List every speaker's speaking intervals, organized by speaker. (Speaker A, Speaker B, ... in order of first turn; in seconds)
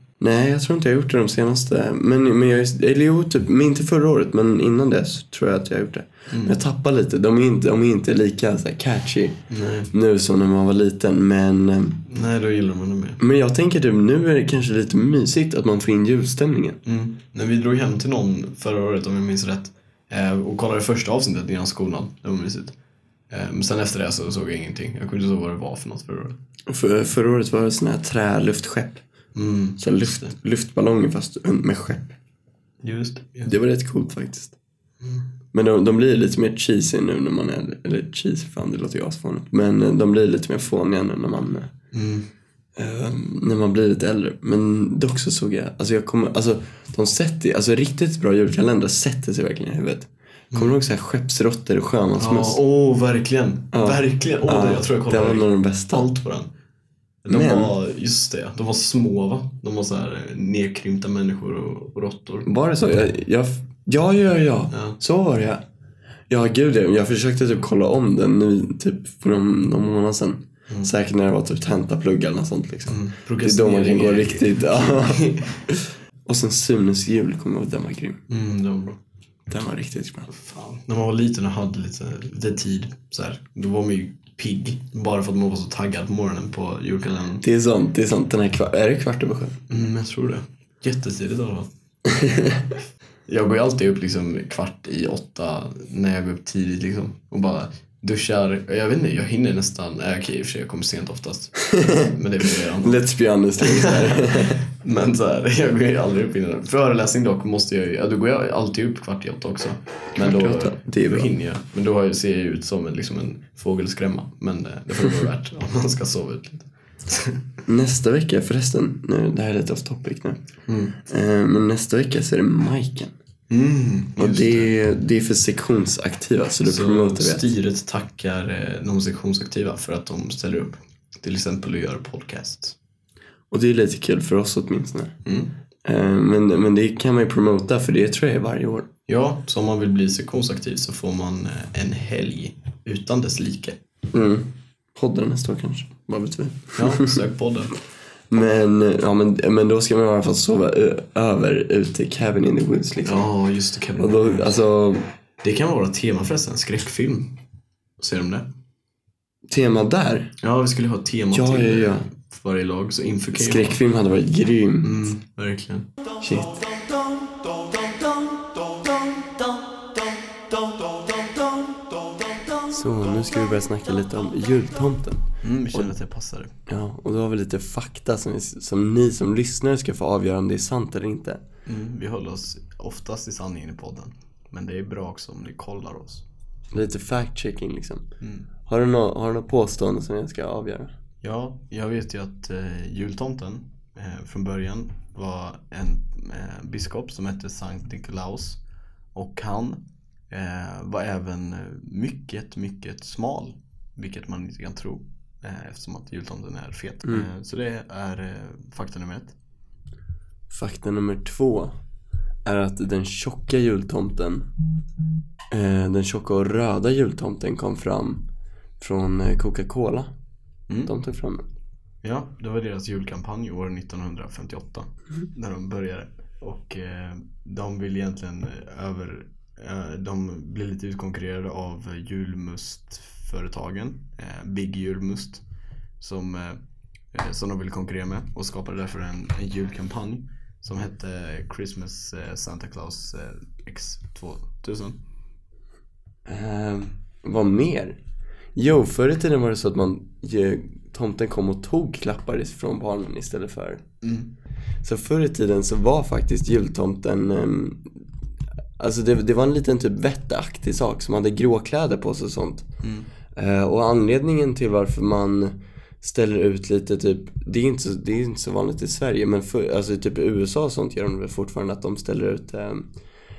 Speaker A: 0.2-12.0, 13.2-16.8, 26.7-29.0, 29.8-32.1, 33.5-34.5, 35.5-41.7, 42.8-52.6, 53.7-56.1, 57.3-57.7, 62.5-65.6, 66.3-78.2, 79.5-80.3, 87.4-89.6, 92.1-92.6, 101.7-102.1, 102.8-104.6, 110.2-111.3, 117.7-120.4, 121.0-123.1, 124.2-127.5, 133.5-135.1, 135.8-138.9, 144.1-147.2, 148.3-153.3, 154.0-155.0, 159.5-160.3, 161.3-162.1, 163.3-165.1, 166.2-166.6, 172.7-175.9, 176.7-181.4, 186.7-188.0, 188.7-190.9, 207.0-207.3, 210.5-211.8, 212.4-214.5, 215.5-218.2, 218.8-220.1, 220.8-221.4, 246.2-248.0, 248.5-253.8, 254.8-258.0, 258.8-262.7, 263.3-272.9
Speaker B: 6.3-6.6, 9.5-9.9, 12.1-13.2, 16.8-22.7, 23.3-26.4, 29.3-30.3, 32.8-33.5, 41.9-42.3, 52.2-56.5, 57.2-62.5, 72.9-75.6, 78.3-79.0, 80.3-87.4, 89.7-92.5, 93.3-103.0, 103.6-117.4, 120.7-121.0, 123.5-124.7, 126.6-132.8, 135.2-135.5, 139.1-143.8, 146.7-147.7, 153.0-154.6, 155.4-157.3, 158.0-158.5, 160.4-163.8, 164.8-165.9, 175.4-176.5, 181.7-186.2, 188.2-188.5, 191.2-198.6, 199.1-209.3, 220.7-220.9, 222.0-235.4, 236.0-236.6, 237.1-245.0, 254.0-254.3, 262.8-263.1